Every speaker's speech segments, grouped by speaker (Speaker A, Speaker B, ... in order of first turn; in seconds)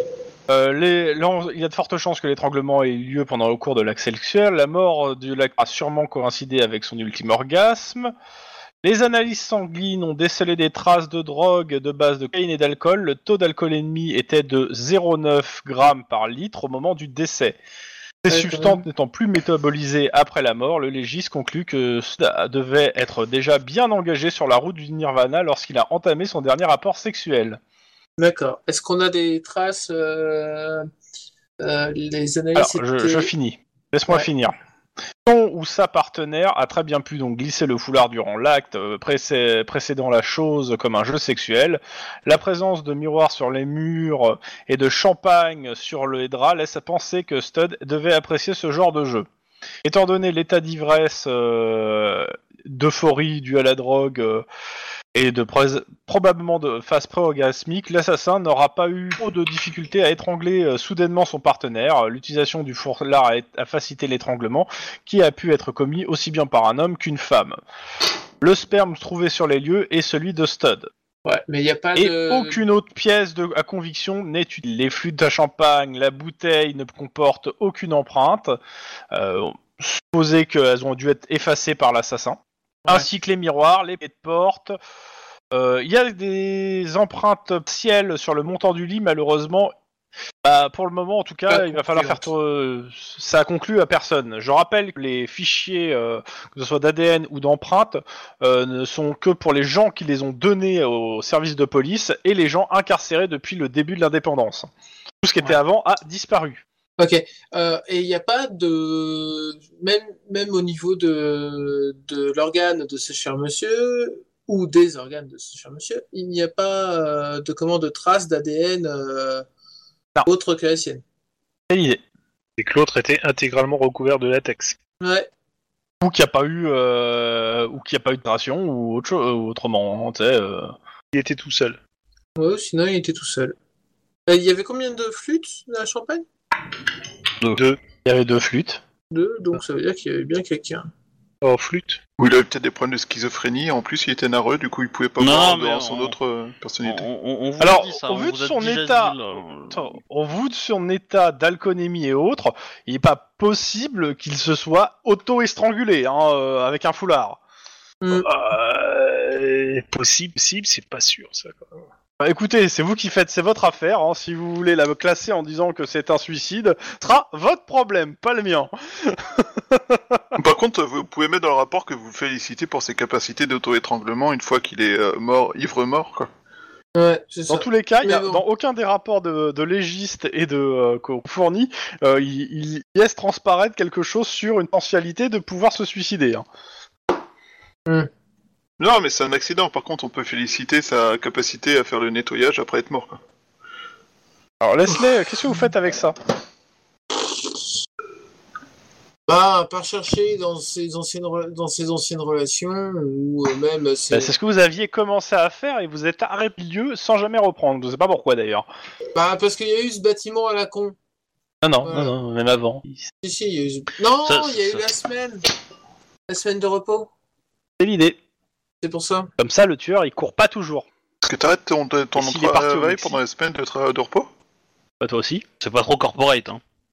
Speaker A: 0.5-8.1, 8.8-17.6, 18.2-27.6, 32.5-34.6, 35.2-49.3, 49.8-54.5, 55.1-67.6, 68.4-70.9, 72.0-78.6, 79.1-84.8, 85.5-89.8, 90.4-104.7, 105.2-106.6, 121.7-122.0, 126.0-130.7, 138.1-138.8, 147.6-149.2, 149.7-157.4, 162.2-170.3, 177.5-186.4, 194.6-196.2, 204.1-208.7, 211.6-213.1, 217.8-218.2, 219.4-220.9, 222.2-223.2, 225.0-225.4
Speaker B: 18.3-18.8, 28.2-30.9, 31.6-33.3, 71.2-72.6, 91.5-92.3, 107.0-119.5, 120.3-121.0, 125.0-125.3, 132.4-133.6, 134.3-136.2, 139.1-140.9, 158.0-158.3, 176.9-178.4, 199.3-204.3, 209.1-211.0, 211.8-212.1, 213.2-215.4, 216.3-217.1, 218.8-219.3
Speaker C: 122.6-124.8, 131.1-131.8, 141.4-142.0, 158.1-161.7
Speaker D: 142.2-147.1, 170.4-176.3, 188.8-193.2, 221.2-224.3
Speaker E: 145.2-146.2, 146.8-150.0, 214.2-214.9, 225.6-226.6